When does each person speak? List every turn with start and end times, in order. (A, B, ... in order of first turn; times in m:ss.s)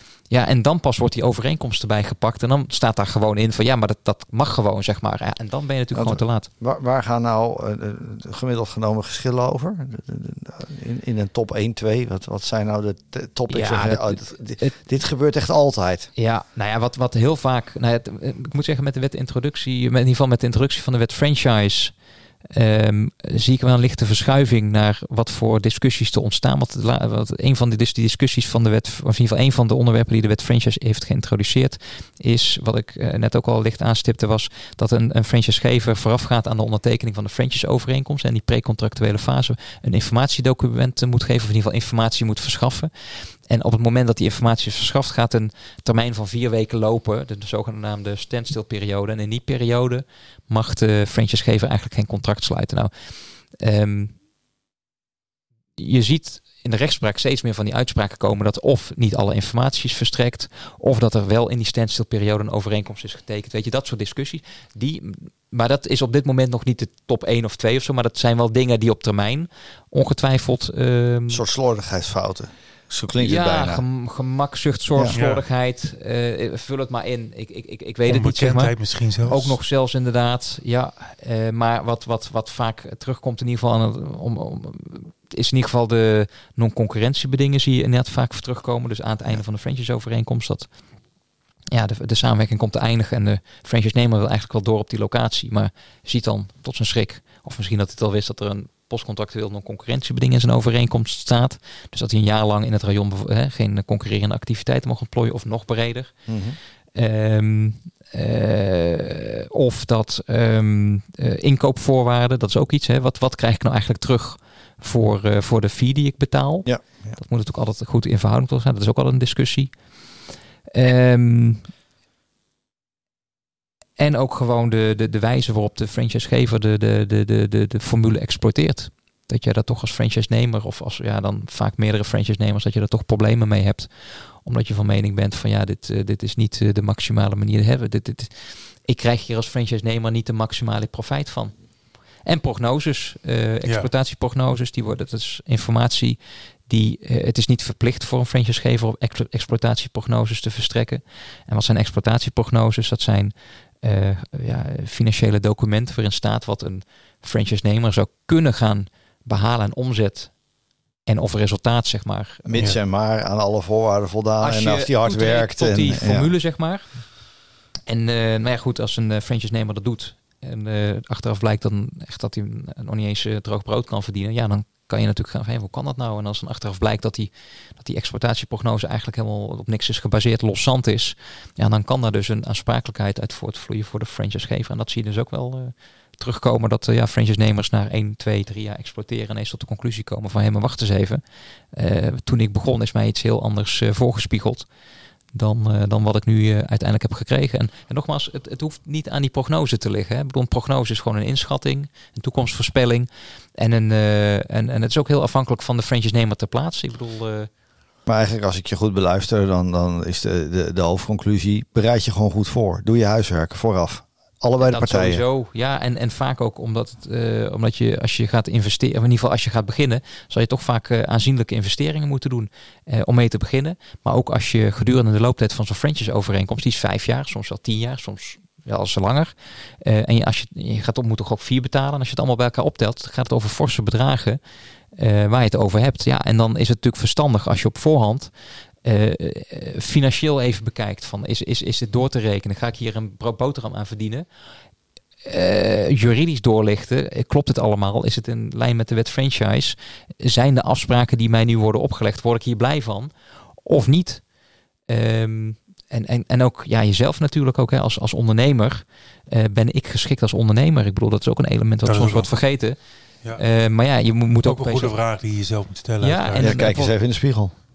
0:00.3-0:06.5 A
0:05.9-0:16.1 B
0:13.5-0:14.7 A
0:16.2-0:21.9 A
0:22.5-0:42.9 A
0:43.4-0:52.9 A
0:53.6-0:54.1 A
0:55.8-1:11.4 A
1:11.3-1:13.8 B
1:13.2-1:30.7 A
1:15.1-1:15.4 C
1:18.1-1:19.6 C
1:31.7-1:46.2 A
1:46.3-1:46.6 B
1:46.9-1:59.7 A
1:56.6-1:57.2 B
2:00.7-2:01.6 A
2:04.0-2:13.9 A
2:14.4-2:18.3 A
2:18.8-2:21.5 A
2:22.2-2:40.3 A
2:41.0-2:42.4 A
2:42.4-2:46.3 B
2:44.4-2:46.8 A
2:47.9-3:11.2 A
3:11.7-3:14.6 A
3:15.3-3:27.5 A
3:28.1-3:35.2 B
3:34.6-3:54.4 A
3:54.9-3:58.3 A
3:58.8-4:04.2 A
4:05.2-4:13.1 A
4:13.6-4:14.2 A
4:14.9-4:22.8 A
4:21.8-4:22.3 C
4:23.4-4:24.9 A
4:24.4-4:26.6 C
4:26.0-4:26.9 A
4:26.4-4:27.5 B